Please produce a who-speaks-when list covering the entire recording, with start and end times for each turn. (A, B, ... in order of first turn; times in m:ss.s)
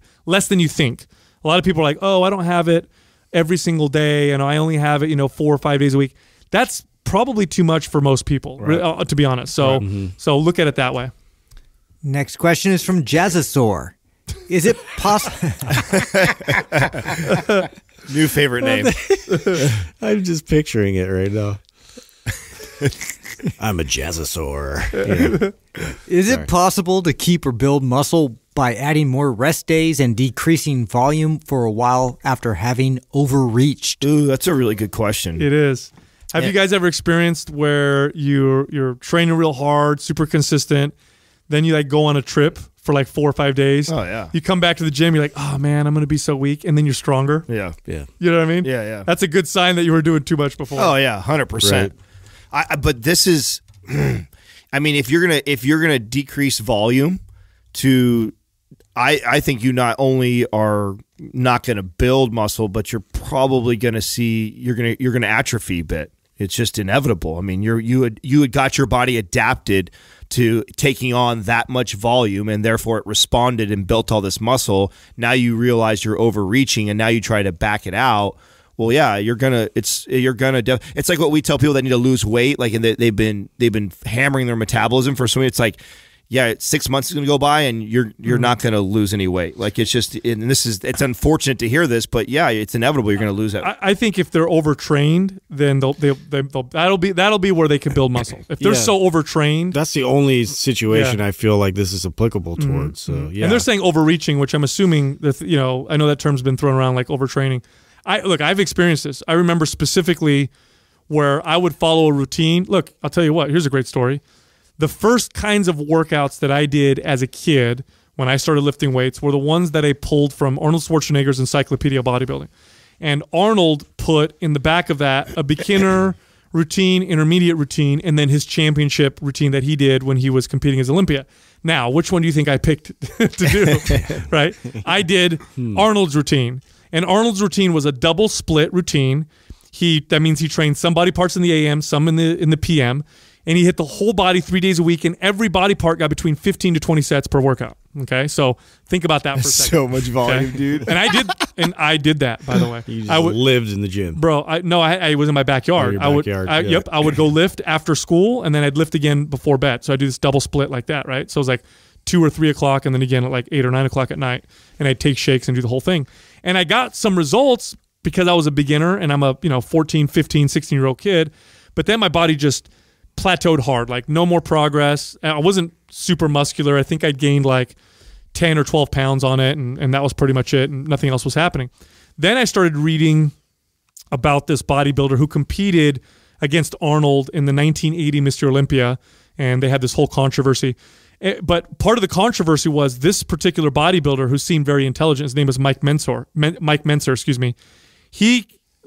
0:00.2-0:11.1 A
0:08.6-0:08.8 B
0:09.8-0:10.1 C
0:12.0-0:14.0 D
0:14.5-0:16.6 D
0:17.3-0:17.6 A
0:18.1-0:18.9 B
0:18.6-0:21.6 C
0:19.3-0:19.6 A
0:23.6-0:25.4 C
0:25.0-0:25.5 A
0:26.1-0:34.1 D
0:34.0-0:35.5 B
0:35.4-0:40.9 A
0:41.5-0:47.5 A
0:43.9-0:44.3 B
0:47.5-0:47.8 B
0:48.2-0:50.9 A
0:48.6-0:49.1 B
0:50.8-0:51.9 B
0:51.6-0:51.9 C
0:52.5-0:57.2 B
0:57.7-0:58.3 B
0:59.0-1:25.8 B
1:26.3-1:33.7 B
1:28.3-1:28.5 A
1:33.6-1:39.8 A
1:38.6-1:39.0 C
1:39.7-1:43.7 C
1:40.9-1:41.2 A
1:42.6-1:50.5 A
1:51.1-1:54.2 A
1:54.8-2:02.5 A
2:03.0-2:33.4 A
2:13.9-2:14.2 C
2:15.6-2:15.8 C
2:29.4-2:31.2 B
2:32.9-2:34.2 C
2:34.1-2:57.8 A
2:35.8-2:37.2 C
2:58.3-3:03.3 A
3:04.1-3:17.6 A
3:18.1-3:18.5 A